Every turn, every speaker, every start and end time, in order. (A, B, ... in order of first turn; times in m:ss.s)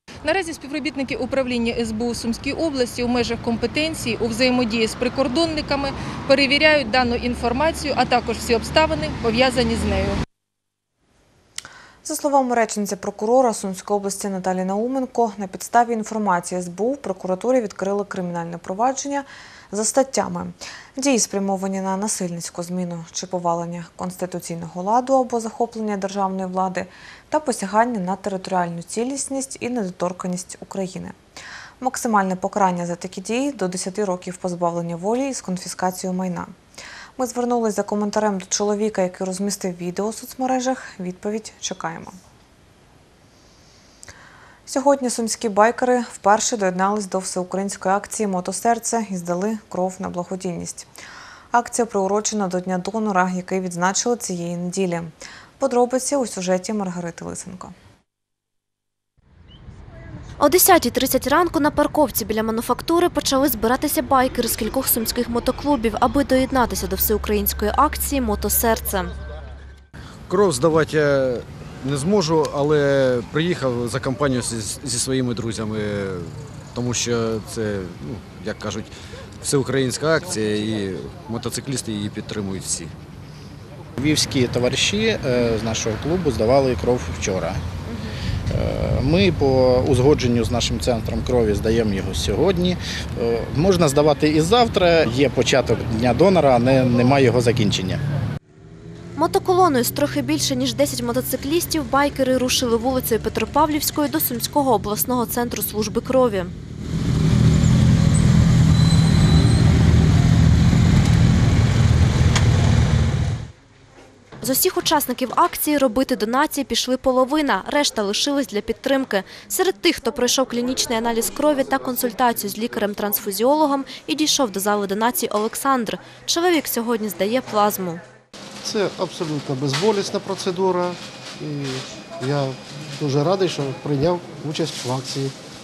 0:00.2-0:10.2 A
0:12.0-0:31.1 B
0:31.8-0:36.5 B
0:37.2-0:42.2 B
0:44.7-0:50.9 B
0:51.5-0:57.7 B
1:00.4-1:09.1 C
1:10.3-1:22.9 D
1:24.0-1:27.6 E
1:28.5-1:38.0 E
1:39.2-1:46.5 C
1:54.4-2:08.0 C
2:08.6-2:15.3 F